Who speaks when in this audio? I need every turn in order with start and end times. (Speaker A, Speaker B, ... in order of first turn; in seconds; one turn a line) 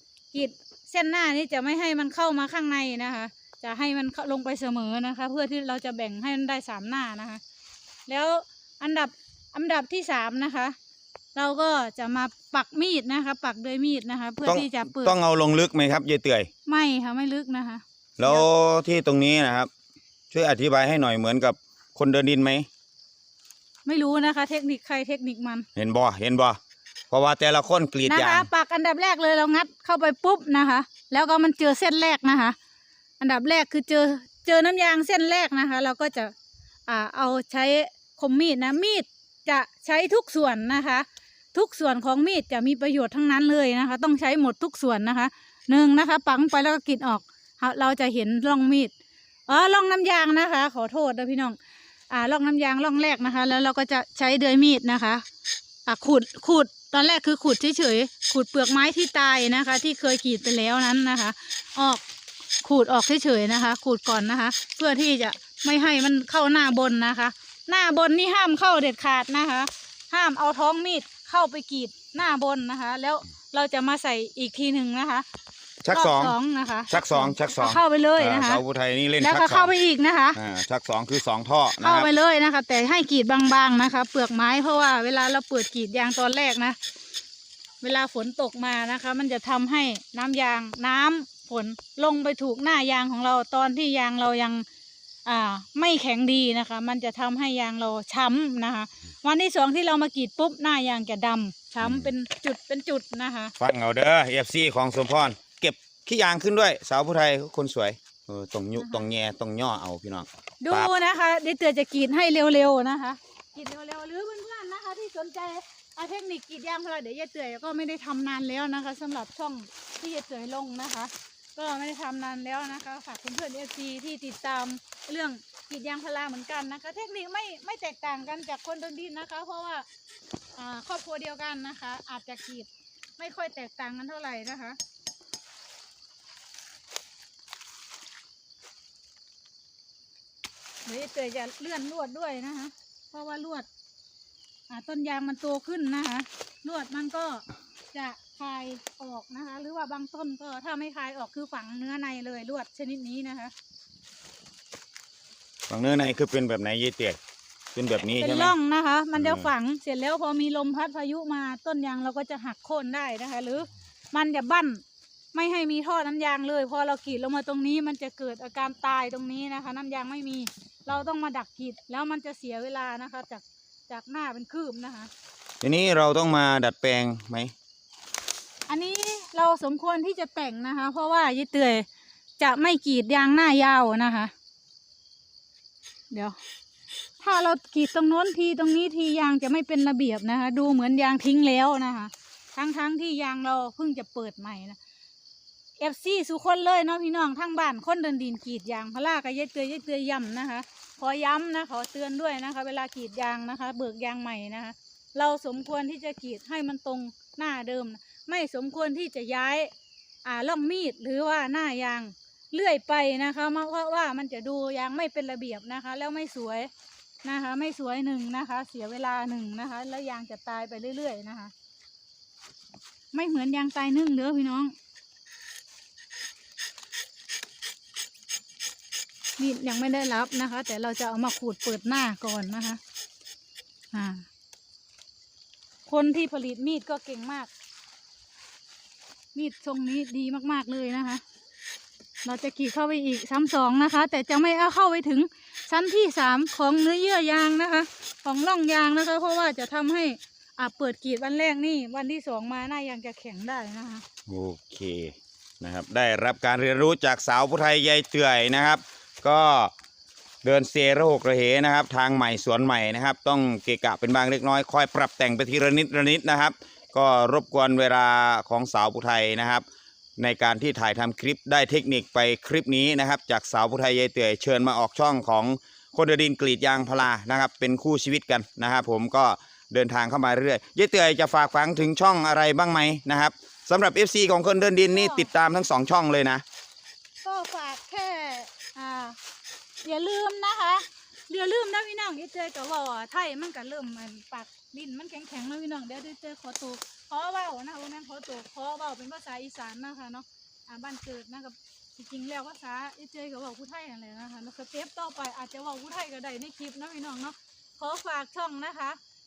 Speaker A: 0.3-7.4
Speaker A: 8.1-10.8
Speaker A: 11.3-15.2
Speaker B: 14.4-16.5
Speaker A: 16.7-18.4
Speaker B: 18.2-19.7
Speaker B: 20.3-22.7
Speaker A: 23.9-25.7
Speaker B: 25.8-26.6
Speaker B: 27.1-28.5
Speaker A: 28.1-32.6
Speaker A: 33.2-36.3
Speaker A: 36.9-48.9
Speaker A: 49.5-51.6
Speaker A: 52.1-55.2
Speaker A: 55.9-62.0
Speaker A: 62.6-75.3
Speaker B: 75.8-76.3
Speaker A: 75.9-78.6
Speaker B: 76.9-79.7
Speaker A: 79.2-80.4
Speaker B: 80.4-82.1
Speaker A: 81.8-86.8
Speaker A: 87.8-94.7
Speaker A: 95.3-103.5
Speaker B: 101.8-102.1
Speaker B: 103.6-110.9
Speaker A: 108.8-109.0
Speaker A: 110.6-129.9
Speaker A: 130.6-134.8
Speaker A: 140.8-143.7
Speaker A: 144.7-153.5
Speaker B: 155.7-157.2
Speaker B: 157.8-158.6
Speaker A: 158.1-164.8
Speaker B: 159.2-159.5
Speaker A: 165.3-175.1
Speaker B: 175.6-177.5
Speaker A: 178.7-181.9
Speaker A: 182.4-184.3
Speaker A: 186.1-186.4
Speaker A: 187.2-194.8
Speaker A: 195.8-209.7
Speaker A: 210.2-216.7
Speaker A: 217.2-221.5
Speaker A: 223.1-224.7
Speaker A: 229.4-232.8
Speaker A: 233.9-234.2
Speaker A: 235.9-237.5
Speaker A: 239.3-241.2
Speaker A: 242.2-254.1
Speaker B: 254.3-259.7
Speaker B: 260.4-269.6
Speaker B: 270.2-286.4
Speaker A: 284.9-285.3
Speaker A: 287.2-289.2
Speaker A: 289.8-309.0